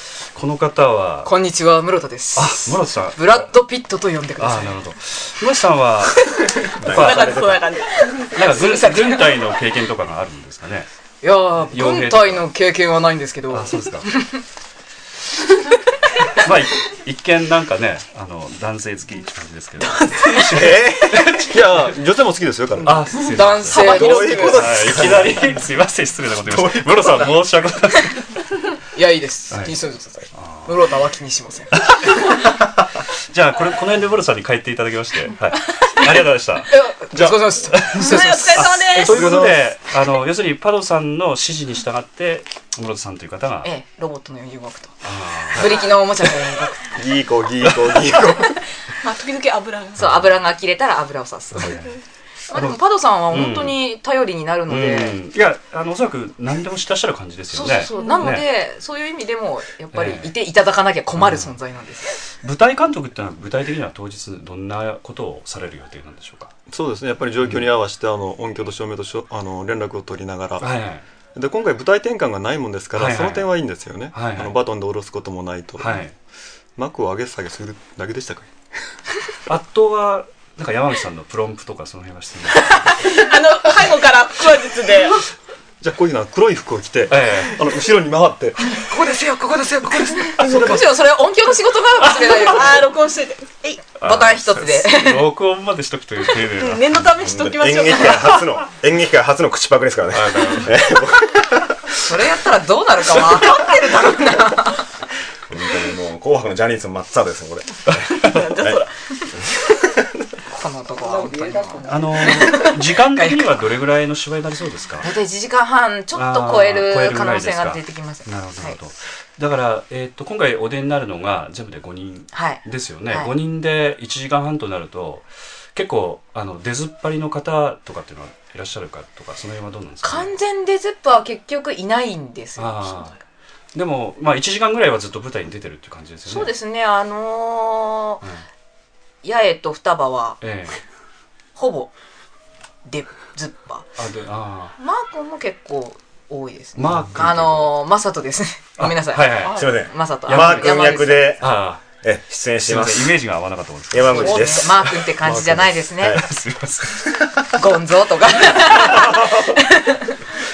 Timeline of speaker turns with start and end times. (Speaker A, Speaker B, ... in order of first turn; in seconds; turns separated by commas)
Speaker A: 0.2-1.3, Speaker B: 1.2-4.8, Speaker A: 2.4-3.5, Speaker A: 4.4-7.4, Speaker C: 6.8-7.6, Speaker D: 6.9-8.2, Speaker B: 8.3-9.4, Speaker A: 8.3-10.9, Speaker B: 11.2-14.4, Speaker A: 11.6-12.5, Speaker A: 13.5-14.1, Speaker A: 16.3-21.9, Speaker D: 19.8-20.6, Speaker C: 20.5-21.5, Speaker E: 21.5-23.1, Speaker A: 22.8-28.4, Speaker B: 23.1-24.6, Speaker D: 23.7-24.6, Speaker C: 23.7-25.6, Speaker C: 26.5-27.4, Speaker B: 28.9-32.1, Speaker A: 29.5-29.8, Speaker A: 30.3-31.0, Speaker A: 31.8-36.7, Speaker B: 36.7-39.2, Speaker E: 37.1-38.0, Speaker A: 37.7-43.7, Speaker D: 38.0-39.2, Speaker E: 39.1-39.7, Speaker B: 43.6-47.0, Speaker A: 45.0-45.8, Speaker E: 47.0-48.5, Speaker B: 48.2-48.6, Speaker D: 49.0-50.0, Speaker B: 50.0-51.9, Speaker A: 50.0-50.3, Speaker B: 52.5-55.2, Speaker A: 52.5-53.8, Speaker A: 54.7-58.5, Speaker B: 57.5-62.2, Speaker D: 57.9-58.3, Speaker A: 59.9-60.3, Speaker A: 61.2-61.6, Speaker A: 62.4-66.5, Speaker E: 66.7-70.7, Speaker A: 67.4-67.7, Speaker A: 70.6-71.0, Speaker E: 71.3-76.0, Speaker A: 72.9-73.5, Speaker A: 74.1-74.6, Speaker A: 75.8-76.1, Speaker E: 76.8-78.5, Speaker A: 79.5-83.1, Speaker D: 82.5-85.2, Speaker E: 85.8-88.6, Speaker A: 87.1-87.6, Speaker B: 88.7-92.9, Speaker E: 90.4-90.9, Speaker A: 90.4-90.8, Speaker A: 92.0-92.5, Speaker D: 92.5-93.9, Speaker B: 94.0-95.3, Speaker A: 94.0-97.1, Speaker D: 96.5-98.4, Speaker C: 97.2-102.1, Speaker A: 100.1-100.8, Speaker B: 102.0-104.8, Speaker C: 105.5-108.8, Speaker D: 108.1-108.9, Speaker B: 110.5-113.6, Speaker A: 111.8-115.1, Speaker B: 115.0-118.8, Speaker A: 116.1-130.3, Speaker B: 122.3-123.3, Speaker B: 130.0-133.2, Speaker A: 132.6-133.1, Speaker A: 133.8-136.5, Speaker B: 136.2-138.2, Speaker B: 139.2-140.4, Speaker A: 140.4-140.8, Speaker B: 141.6-141.9, Speaker B: 142.9-143.9, Speaker A: 144.0-144.8, Speaker B: 144.8-151.4, Speaker A: 146.8-147.8, Speaker A: 148.8-149.7, Speaker C: 149.5-153.2, Speaker A: 150.2-151.8, Speaker A: 152.6-155.1, Speaker C: 153.9-156.2, Speaker B: 154.1-156.2, Speaker A: 156.1-157.1, Speaker B: 157.5-160.3, Speaker A: 159.0-159.3